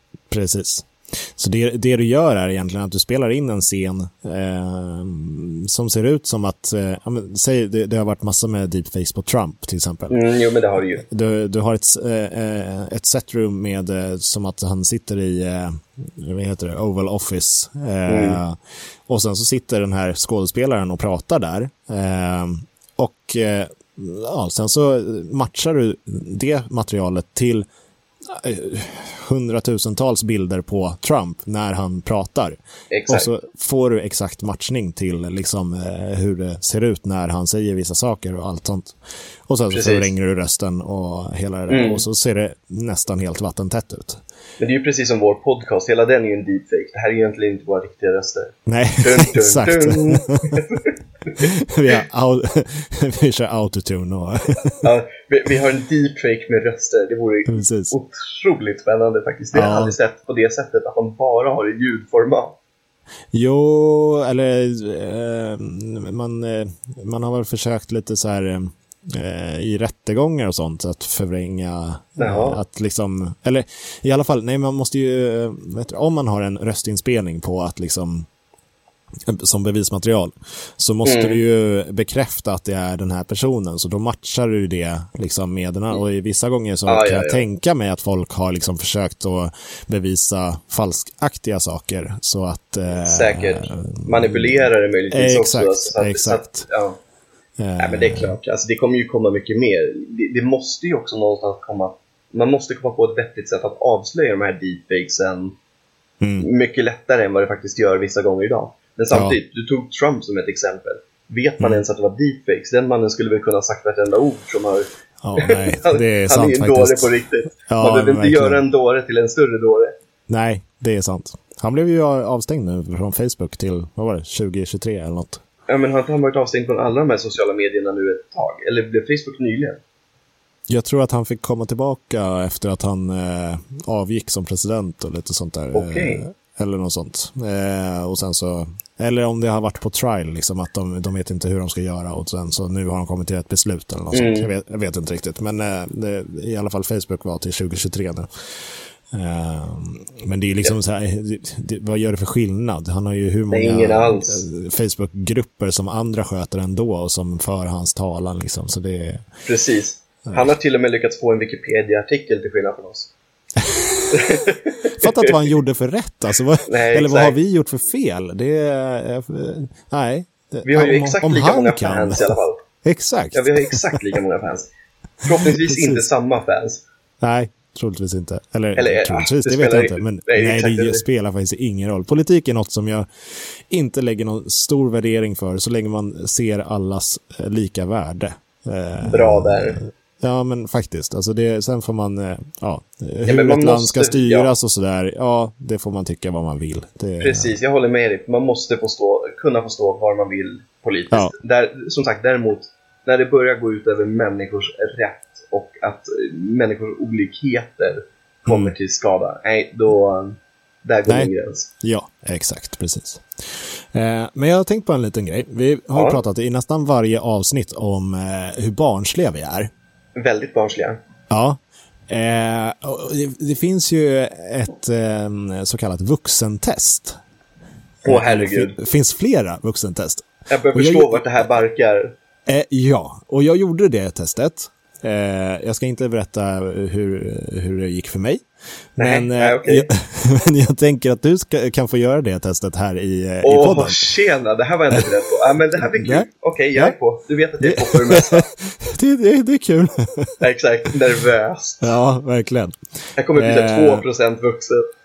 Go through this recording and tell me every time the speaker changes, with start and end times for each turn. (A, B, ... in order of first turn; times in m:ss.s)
0:00.3-0:10.2 A
0:10.1-0:11.0 B
0:11.0-0:27.7 A
0:18.1-0:18.4 B
0:28.2-0:39.0 A
0:32.9-0:33.3 B
0:39.5-0:44.2 A
0:39.7-0:40.1 B
0:41.7-0:42.0 B
0:44.6-0:51.5 B
0:48.7-0:50.6 A
0:51.4-0:54.8 A
0:54.8-1:02.6 B
0:57.5-0:57.9 A
0:59.5-1:00.0 A
1:03.3-1:18.3 A
1:12.2-1:12.6 B
1:19.3-1:36.7 A
1:21.0-1:21.4 B
1:26.9-1:27.5 B
1:32.9-1:37.0 B
1:37.6-1:38.4 A
1:37.8-1:45.6 B
1:46.2-1:46.5 A
1:46.4-1:59.9 B
1:49.1-1:49.4 A
1:55.2-1:58.6 A
2:00.3-2:05.4 A
2:05.7-2:09.8 B
2:10.7-2:28.3 A
2:15.7-2:16.2 B
2:24.1-2:24.5 B
2:29.1-2:39.2 A
2:33.5-2:34.4 B
2:39.5-2:43.1 B
2:43.6-2:44.2 A
2:44.1-2:45.4 B
2:45.0-2:54.0 A
2:46.7-2:47.4 B
2:50.6-2:52.6 B
2:53.3-2:54.7 B
2:55.2-2:56.8 B
2:55.4-2:56.0 A
2:57.2-3:03.1 A
2:58.8-3:01.0 B
3:03.7-3:17.5 A
3:09.0-3:09.8 B
3:13.3-3:14.5 B
3:17.2-3:31.7 B
3:28.5-3:28.7 A
3:31.8-3:33.2 A
3:33.9-3:39.7 A
3:35.9-3:36.2 B
3:40.2-3:41.0 B
3:41.3-3:47.2 A
3:48.0-3:48.8 B
3:48.1-3:51.5 A
3:50.5-3:52.1 B
3:52.5-3:58.4 A
3:59.0-4:04.0 A
3:59.0-3:59.9 B
4:03.4-4:08.5 B
4:05.8-4:07.0 A
4:07.6-4:10.4 A
4:10.4-4:12.0 B
4:11.8-4:12.7 A
4:13.2-4:14.8 B
4:13.4-4:14.0 A